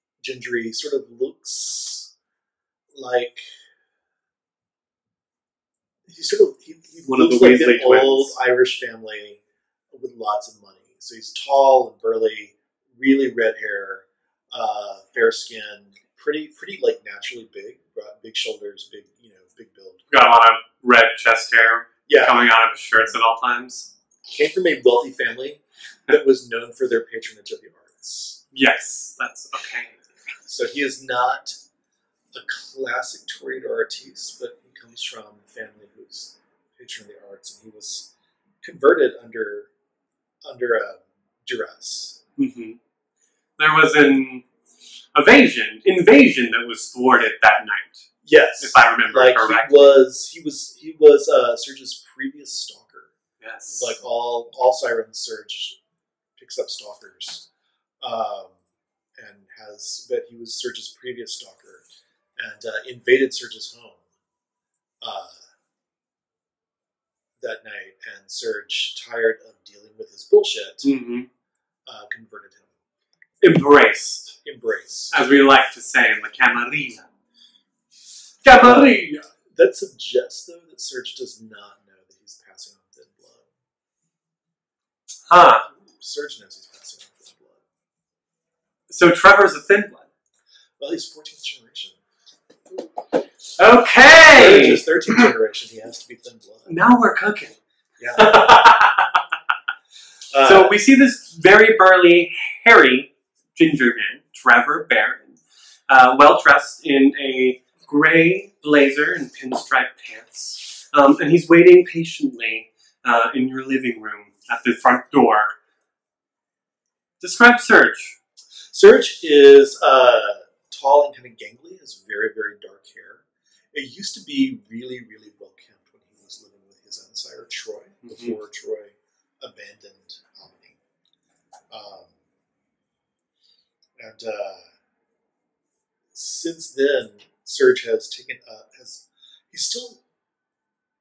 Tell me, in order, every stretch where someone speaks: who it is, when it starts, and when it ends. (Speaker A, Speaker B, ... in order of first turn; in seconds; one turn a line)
Speaker A: 0.2-2.1
Speaker A: 2.9-3.5
Speaker A: 6.1-9.4
Speaker B: 7.1-8.3
Speaker A: 9.9-20.0
Speaker B: 20.1-23.9
Speaker A: 22.1-22.4
Speaker A: 24.2-28.4
Speaker B: 28.5-29.9
Speaker A: 30.5-31.6
Speaker A: 32.3-38.1
Speaker A: 38.6-39.7
Speaker A: 40.4-42.2
Speaker B: 42.4-42.8
Speaker B: 43.6-44.5
Speaker B: 45.1-48.1
Speaker A: 48.2-53.1
Speaker B: 48.6-50.0
Speaker B: 53.4-54.0
Speaker A: 53.7-55.8
Speaker A: 56.4-57.5
Speaker A: 58.0-58.6
Speaker A: 59.2-61.9
Speaker A: 62.4-64.0
Speaker A: 65.0-65.5
Speaker A: 67.4-70.9
Speaker B: 70.8-71.3
Speaker A: 71.9-72.8
Speaker B: 73.4-74.4
Speaker A: 74.5-75.1
Speaker B: 75.1-77.1
Speaker B: 78.4-79.2
Speaker A: 78.5-79.0
Speaker A: 79.5-83.5
Speaker B: 85.3-85.7
Speaker A: 86.0-87.6
Speaker B: 88.9-90.1
Speaker A: 90.8-92.0
Speaker B: 93.6-94.8
Speaker A: 94.2-96.7
Speaker B: 96.7-97.6
Speaker A: 98.0-98.4
Speaker B: 98.2-99.2
Speaker A: 100.3-100.8
Speaker B: 100.4-115.5
Speaker B: 117.2-118.2
Speaker A: 118.7-130.8
Speaker B: 128.1-128.3
Speaker A: 131.7-132.1
Speaker A: 134.0-134.7
Speaker A: 136.1-140.0